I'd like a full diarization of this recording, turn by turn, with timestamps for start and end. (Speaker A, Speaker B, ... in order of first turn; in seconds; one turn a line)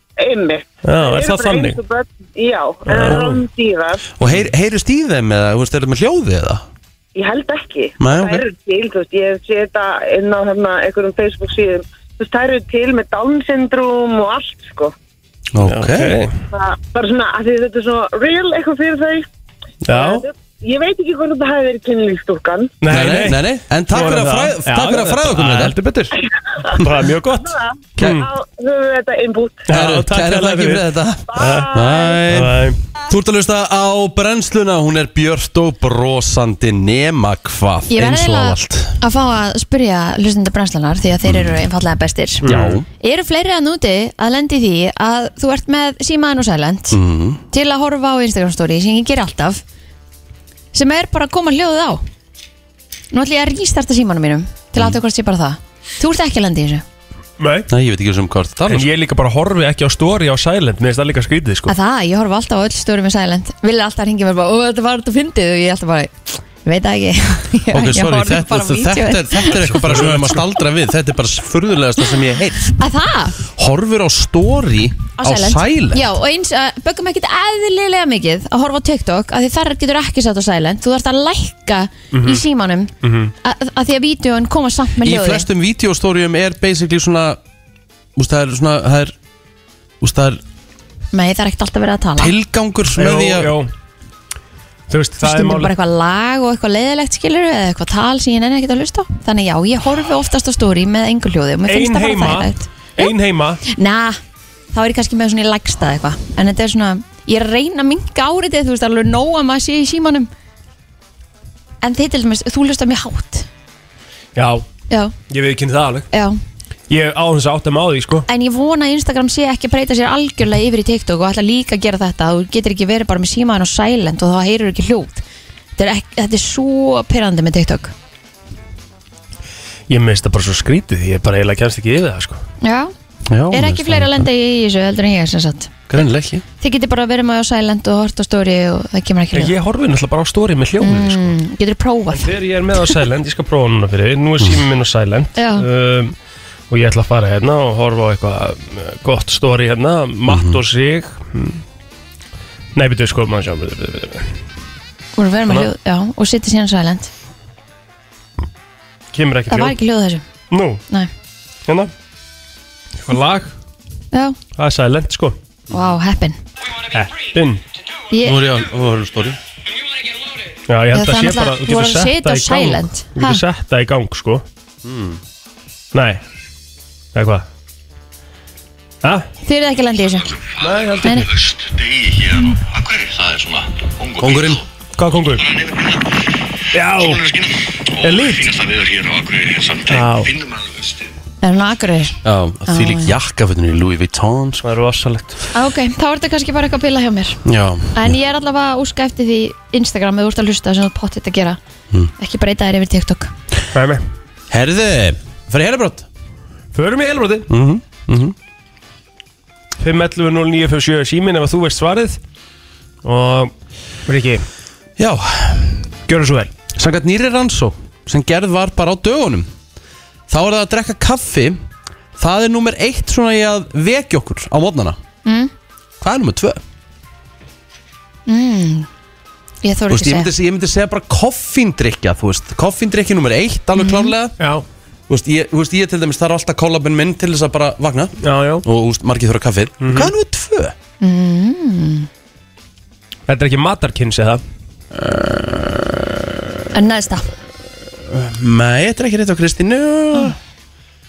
Speaker A: 0.2-4.1
Speaker B: 0.8-1.8
Speaker B: 2.9-3.4
Speaker C: 4.2-6.6
Speaker A: 7.1-14.9
Speaker C: 8.0-8.4
Speaker C: 15.5-16.2
Speaker B: 15.6-16.3
Speaker A: 16.5-19.2
Speaker B: 19.9-20.2
Speaker A: 19.9-22.7
Speaker B: 22.8-26.1
Speaker C: 22.9-25.8
Speaker B: 26.7-28.3
Speaker A: 27.4-29.7
Speaker B: 29.7-31.7
Speaker C: 29.7-39.0
Speaker A: 31.3-32.2
Speaker B: 32.3-32.8
Speaker D: 37.9-42.5
Speaker C: 41.2-41.6
Speaker B: 42.4-42.8
Speaker C: 42.4-42.9
Speaker D: 43.0-47.0
Speaker C: 46.9-47.4
Speaker D: 47.5-49.6
Speaker D: 50.7-52.0
Speaker D: 53.1-56.8
Speaker B: 57.4-57.7
Speaker C: 57.7-58.9
Speaker B: 58.7-61.7
Speaker D: 61.7-69.8
Speaker C: 67.7-72.8
Speaker B: 69.7-70.4
Speaker D: 72.8-73.4
Speaker C: 73.5-76.1
Speaker D: 75.2-85.5
Speaker B: 82.1-82.4
Speaker B: 83.0-83.3
Speaker C: 85.0-87.4
Speaker C: 88.2-89.1
Speaker C: 90.0-90.4
Speaker D: 91.1-92.3
Speaker C: 92.2-93.6
Speaker B: 92.9-93.7
Speaker B: 94.9-95.7
Speaker D: 95.2-103.1
Speaker B: 101.7-103.6
Speaker D: 103.6-104.2
Speaker D: 104.7-110.3
Speaker D: 111.8-113.5
Speaker B: 114.4-114.6
Speaker B: 115.3-116.1
Speaker D: 116.1-116.4
Speaker B: 116.9-118.2
Speaker D: 118.3-125.2
Speaker D: 125.8-127.9
Speaker B: 129.9-132.4
Speaker D: 132.6-132.9
Speaker C: 133.3-134.3
Speaker D: 133.5-135.7
Speaker C: 135.9-136.4
Speaker D: 136.6-139.5
Speaker B: 139.3-141.4
Speaker D: 140.8-142.3
Speaker B: 142.1-146.1
Speaker D: 145.4-145.7
Speaker B: 146.7-151.6
Speaker C: 150.3-150.6
Speaker B: 152.8-154.2
Speaker D: 155.2-157.1
Speaker B: 159.1-159.8
Speaker D: 159.5-160.2
Speaker B: 160.5-160.8
Speaker B: 163.1-163.5
Speaker D: 164.1-164.4
Speaker B: 164.6-165.4
Speaker D: 165.7-166.4
Speaker B: 166.9-167.6
Speaker D: 168.1-168.4
Speaker C: 168.2-169.4
Speaker B: 170.7-174.4
Speaker D: 170.9-173.4
Speaker C: 174.8-175.2
Speaker B: 175.9-176.2
Speaker B: 177.1-177.4
Speaker D: 179.4-180.3
Speaker E: 180.4-184.6
Speaker B: 180.6-181.3
Speaker D: 181.0-181.3
Speaker C: 184.2-184.6
Speaker B: 185.0-185.5
Speaker E: 185.3-191.1
Speaker B: 186.7-187.3
Speaker B: 188.0-188.5
Speaker B: 189.9-190.3
Speaker D: 191.4-193.2
Speaker C: 192.2-194.7
Speaker B: 194.6-195.4
Speaker D: 195.5-197.4
Speaker C: 197.4-198.1
Speaker D: 197.9-201.6
Speaker D: 202.2-203.3
Speaker B: 203.7-204.0
Speaker C: 204.5-206.1
Speaker B: 206.7-207.5
Speaker C: 207.5-208.3
Speaker B: 209.8-212.2
Speaker B: 213.0-213.5
Speaker B: 214.1-214.4
Speaker C: 215.0-215.8
Speaker B: 216.1-216.5
Speaker C: 216.7-219.5
Speaker C: 220.3-221.6
Speaker C: 222.2-225.0
Speaker D: 225.2-225.5
Speaker C: 226.0-226.6
Speaker D: 228.3-228.9
Speaker D: 229.6-230.3
Speaker C: 229.9-234.3
Speaker D: 233.8-234.1
Speaker B: 234.4-234.6
Speaker C: 235.1-240.7
Speaker B: 238.2-238.6
Speaker B: 239.8-240.1
Speaker D: 241.0-242.1
Speaker B: 243.3-244.4
Speaker C: 244.9-246.5
Speaker D: 246.7-247.3
Speaker C: 248.1-250.4